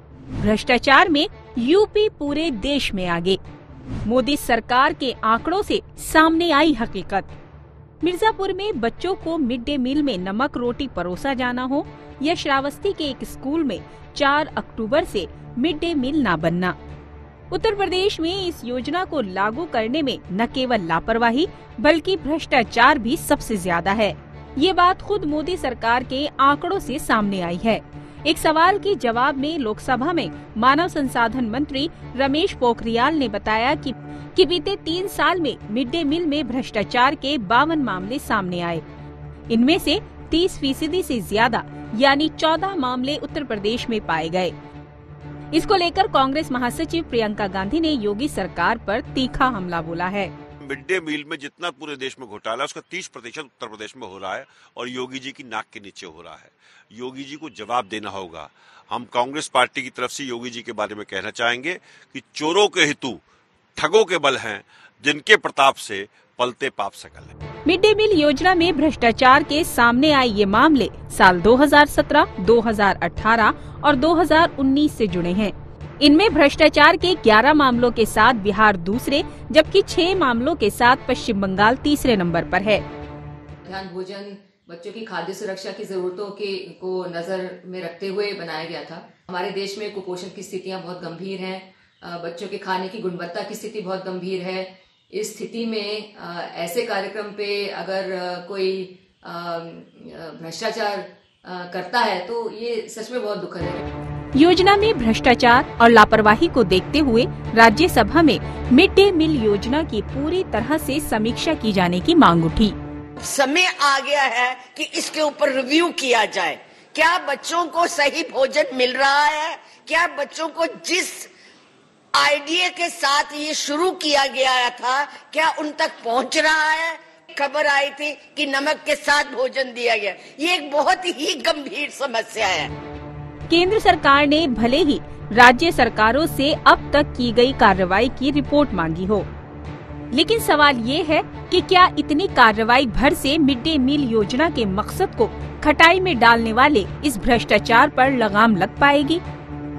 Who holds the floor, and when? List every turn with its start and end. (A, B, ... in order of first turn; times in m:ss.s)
0:00.4-0:03.4 A
0:04.0-0:07.3 A
0:08.0-0:16.8 A
0:17.5-0:38.8 A
0:39.5-0:44.5 A
0:45.5-0:50.3 A
0:50.6-1:03.2 B
1:03.8-1:07.3 B
1:07.7-1:22.8 A
1:23.7-1:43.8 C
1:44.4-1:52.8 A
1:53.2-2:01.3 D
2:02.1-2:12.7 D
2:13.5-2:19.3 A
2:20.1-2:29.2 A